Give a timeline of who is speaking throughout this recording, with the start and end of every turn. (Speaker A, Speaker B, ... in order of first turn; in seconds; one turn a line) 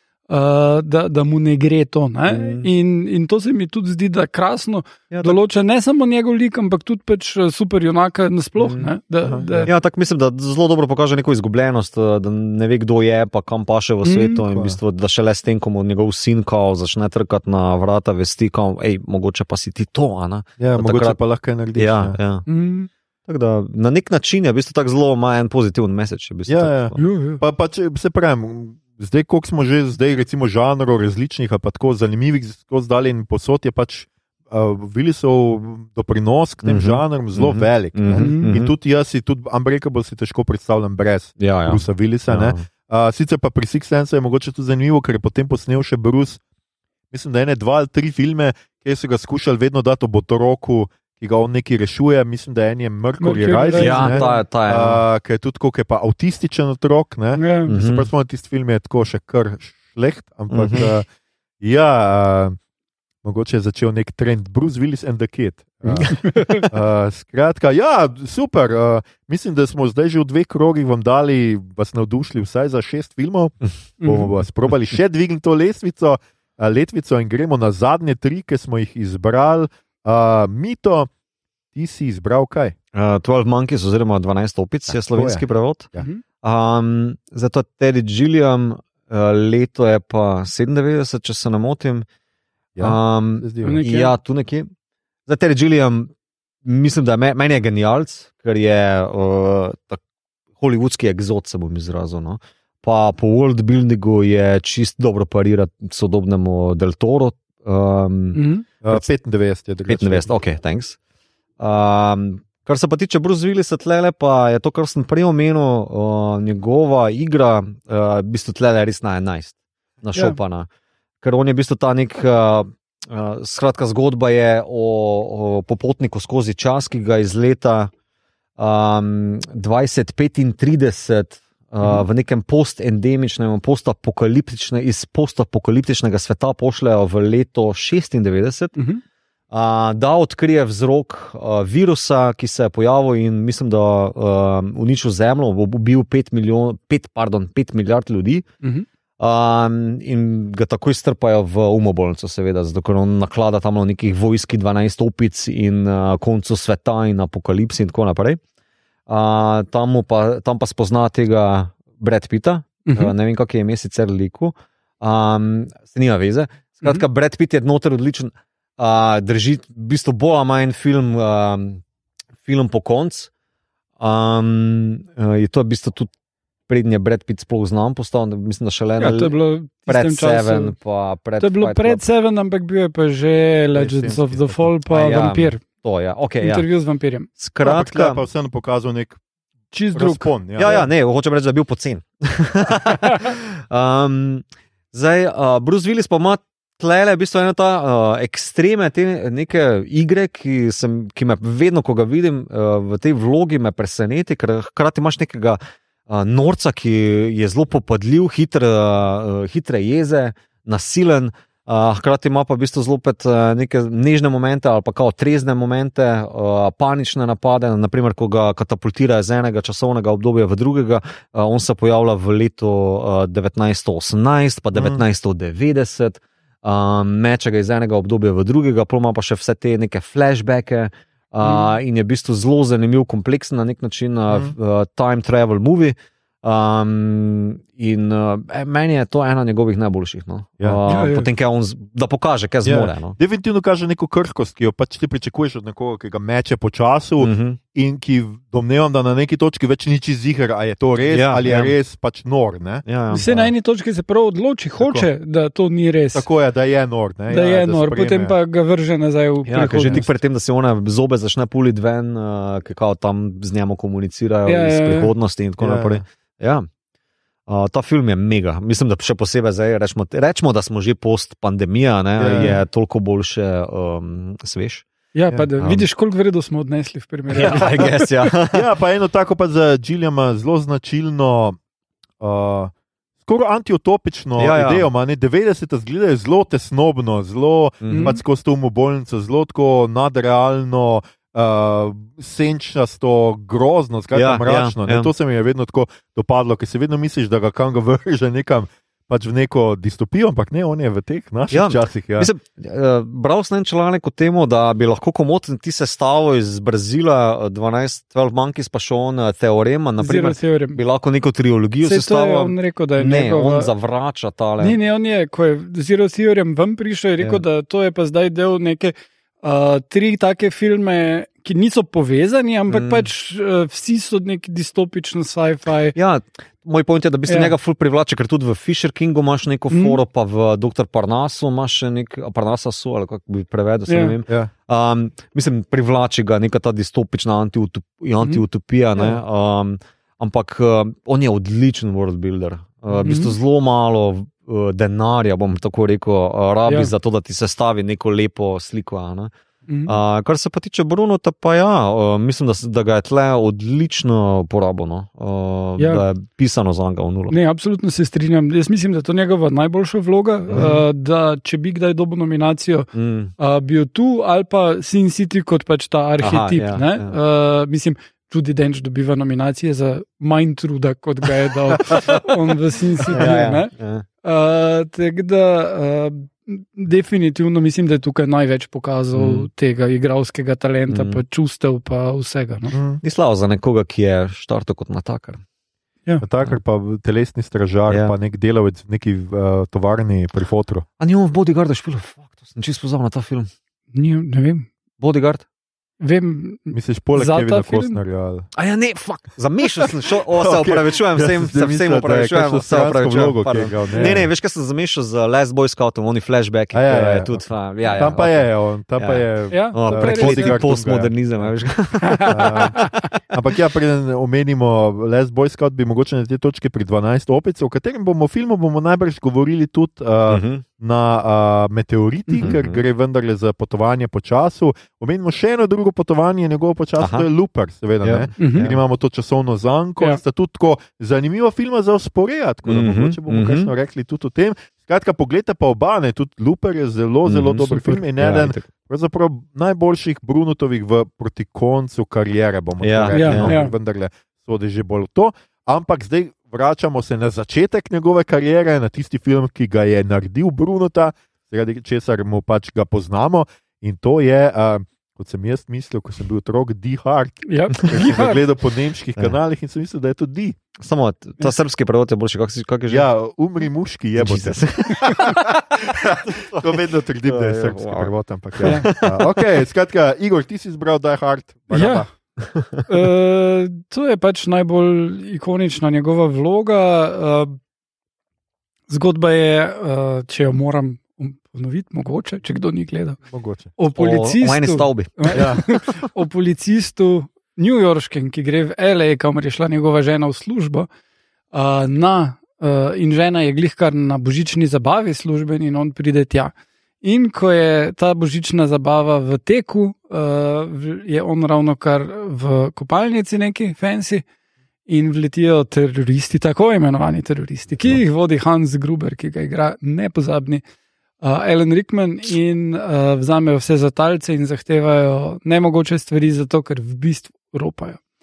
Speaker A: 0.3-9.7
Speaker B: 2.3-2.7
Speaker B: 5.1-5.4
Speaker B: 8.6-8.9
Speaker C: 9.2-9.7
Speaker B: 9.7-21.2
Speaker A: 14.0-14.4
Speaker C: 14.5-14.8
Speaker C: 20.6-22.2
Speaker B: 21.8-22.4
Speaker A: 22.5-22.9
Speaker B: 23.3-27.0
Speaker C: 26.5-46.4
Speaker A: 26.9-27.4
Speaker B: 36.6-38.7
Speaker A: 38.1-38.5
Speaker B: 41.4-42.6
Speaker C: 47.1-61.1
Speaker A: 53.2-54.3
Speaker B: 53.8-55.0
Speaker A: 57.3-57.7
Speaker B: 57.7-58.1
Speaker B: 60.5-60.9
Speaker C: 61.6-62.6
Speaker C: 63.2-81.1
Speaker B: 65.9-66.7
Speaker A: 66.1-66.7
Speaker A: 74.0-74.3
Speaker C: 81.7-82.7
Speaker B: 82.9-85.9
Speaker C: 84.9-86.1
Speaker A: 86.0-86.2
Speaker B: 86.4-92.0
Speaker C: 92.8-93.8
Speaker B: 92.8-94.7
Speaker A: 93.6-94.1
Speaker B: 95.3-96.1
Speaker B: 96.6-100.0
Speaker B: 100.6-109.1
Speaker A: 108.3-108.7
Speaker C: 108.8-110.3
Speaker B: 109.9-111.0
Speaker B: 111.6-120.7
Speaker B: 121.2-127.9
Speaker B: 128.6-138.7
Speaker A: 138.8-139.0
Speaker B: 139.5-148.4
Speaker B: 149.2-158.4
Speaker B: 159.1-171.8
Speaker A: 162.8-163.1
Speaker B: 172.4-173.3
Speaker B: 174.0-176.1
Speaker B: 176.7-179.3
Speaker A: 179.0-180.7
Speaker B: 179.9-182.0
Speaker A: 181.4-185.6
Speaker C: 183.7-184.7
Speaker B: 184.9-186.6
Speaker A: 186.4-187.3
Speaker B: 187.4-188.2
Speaker C: 187.6-189.2
Speaker A: 189.7-190.3
Speaker C: 189.9-190.9
Speaker B: 190.6-243.2
Speaker C: 224.7-225.0
Speaker A: 231.4-231.7
Speaker C: 234.3-234.5
Speaker A: 240.9-241.3
Speaker C: 242.6-253.5
Speaker B: 247.2-247.6
Speaker B: 251.1-251.7
Speaker B: 252.8-253.2
Speaker A: 253.1-256.3
Speaker C: 254.8-255.1
Speaker C: 256.1-258.3
Speaker A: 257.3-260.1
Speaker B: 259.4-266.7
Speaker A: 264.4-265.1
Speaker C: 265.6-266.0
Speaker B: 267.5-274.8
Speaker C: 272.2-272.5
Speaker A: 275.1-278.1
Speaker B: 275.6-275.8
Speaker B: 277.3-278.7
Speaker C: 278.5-281.6
Speaker C: 282.2-282.7
Speaker C: 283.2-302.3
Speaker B: 284.4-284.9
Speaker B: 287.8-288.2
Speaker A: 287.9-288.2
Speaker B: 294.1-295.1
Speaker B: 301.5-314.8
Speaker A: 310.0-310.8
Speaker A: 311.8-313.7
Speaker A: 314.6-325.9
Speaker B: 322.7-323.1
Speaker B: 325.9-349.3
Speaker A: 327.3-327.5
Speaker A: 329.7-330.0
Speaker A: 333.9-334.2
Speaker A: 338.9-339.2
Speaker A: 343.0-343.3
Speaker A: 346.6-346.9
Speaker A: 349.7-349.9
Speaker B: 349.9-357.4
Speaker A: 355.8-356.0
Speaker A: 357.3-373.7
Speaker B: 360.5-360.8
Speaker B: 362.9-363.3
Speaker B: 366.2-367.1
Speaker B: 373.1-374.0
Speaker A: 374.2-382.7
Speaker B: 379.1-379.5
Speaker B: 380.9-381.2
Speaker C: 382.7-383.0
Speaker B: 383.0-385.4
Speaker C: 386.2-390.8
Speaker B: 391.0-393.5
Speaker A: 393.9-394.7
Speaker B: 395.0-395.4
Speaker A: 396.0-398.0
Speaker C: 396.7-398.5
Speaker B: 398.5-408.4
Speaker C: 400.3-404.3
Speaker C: 406.7-407.4
Speaker C: 407.9-411.5
Speaker B: 409.0-412.7
Speaker A: 409.5-410.7
Speaker A: 412.0-413.0
Speaker C: 412.3-412.8
Speaker C: 413.3-460.6
Speaker B: 420.3-420.6
Speaker B: 422.4-422.8
Speaker B: 427.0-427.3
Speaker B: 428.0-428.8
Speaker A: 428.4-428.7
Speaker B: 432.6-433.7
Speaker B: 437.2-438.7
Speaker B: 442.8-443.6
Speaker A: 443.1-443.7
Speaker A: 457.4-458.4
Speaker B: 460.8-463.1
Speaker C: 462.9-472.1
Speaker B: 464.2-465.4
Speaker B: 466.3-469.4
Speaker A: 468.6-468.9
Speaker A: 471.7-472.1
Speaker B: 472.4-472.8
Speaker A: 472.9-477.6
Speaker A: 478.9-483.2
Speaker C: 483.3-483.7
Speaker A: 483.8-490.9
Speaker B: 483.9-485.8
Speaker C: 485.3-485.6
Speaker A: 491.5-504.2
Speaker A: 504.9-510.6
Speaker A: 511.2-518.0